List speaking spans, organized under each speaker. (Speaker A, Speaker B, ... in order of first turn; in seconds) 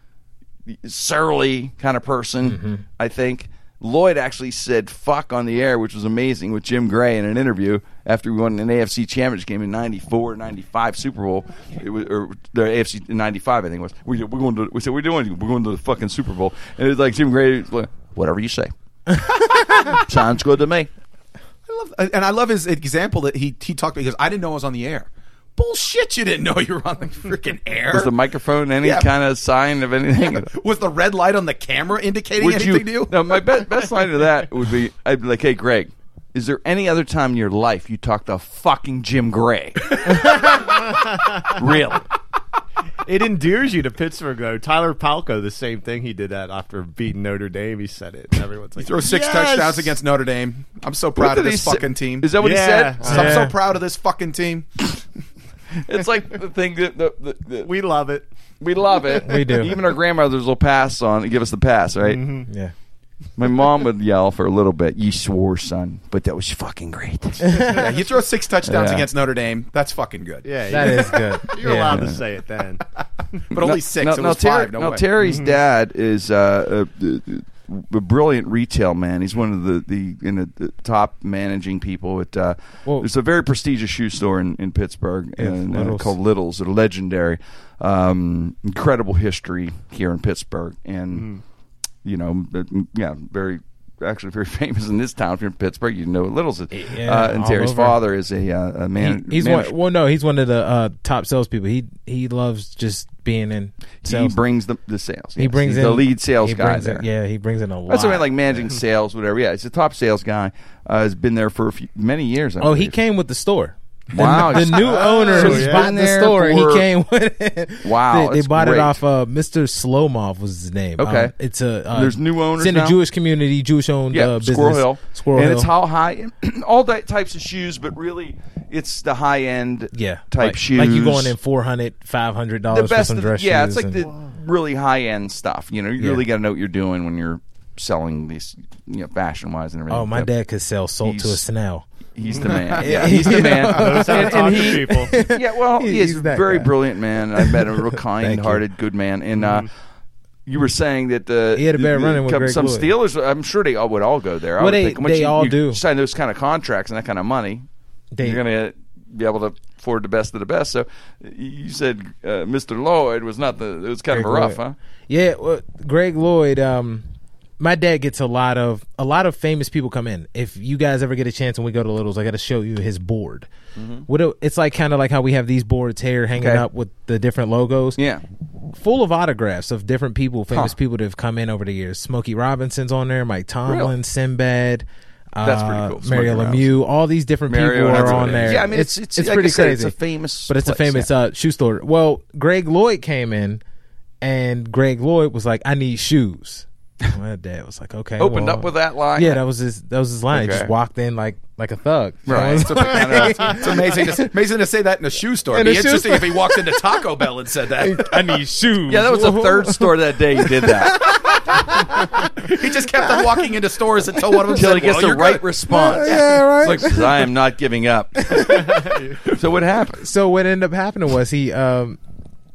Speaker A: 0.7-20.9, 27.9-30.5, 32.4-42.1, 51.2-53.3, 55.8-57.7, 58.6-62.4, 63.4-67.7, 68.6-69.1, 71.9-72.2, 73.5-91.3, 92.0-99.7, 104.0-107.1, 107.9-113.0, 114.1-116.9, 117.8-119.0, 121.0-121.3, 121.9-123.0, 124.1-131.3, 132.7-140.3, 141.0-141.4, 142.2-149.7, 150.5-157.7, 158.2-164.8, 173.8-174.1, 176.4-176.7, 178.0-178.2, 180.5-180.8, 183.7-183.9, 185.4-186.7, 187.5-191.1, 198.2-199.4, 200.3-200.7, 202.3-204.3, 208.9-211.2, 214.5-220.1
Speaker B: 2.5-2.8, 53.1-53.5, 59.2-59.8, 62.5-62.7, 70.7-72.2, 85.4-86.1, 96.7-98.0, 99.0-104.4, 105.4-108.7, 112.6-125.7, 129.9-134.1, 136.0-136.2, 139.9-141.8, 142.8-146.8, 147.4-148.6, 151.6-152.9, 154.6-155.8, 158.1-158.4, 164.1-167.1, 167.6-173.5, 174.1-178.0, 178.7-190.0, 190.5-193.6, 194.2-203.7, 205.5-206.8, 207.8-209.9, 210.6-211.2, 215.7-217.2, 220.0-222.0
Speaker C: 21.7-28.1, 28.8-29.1, 30.4-33.5, 48.8-52.3, 53.0-54.7, 67.6-71.0, 73.5-75.1, 202.5-208.4, 211.1-215.5
Speaker D: 43.0-50.0, 52.4-53.4, 57.6-58.3, 62.0-62.5, 70.5-72.8, 75.2-75.5, 91.1-91.4, 115.3-115.9, 142.3-145.1, 218.8-219.1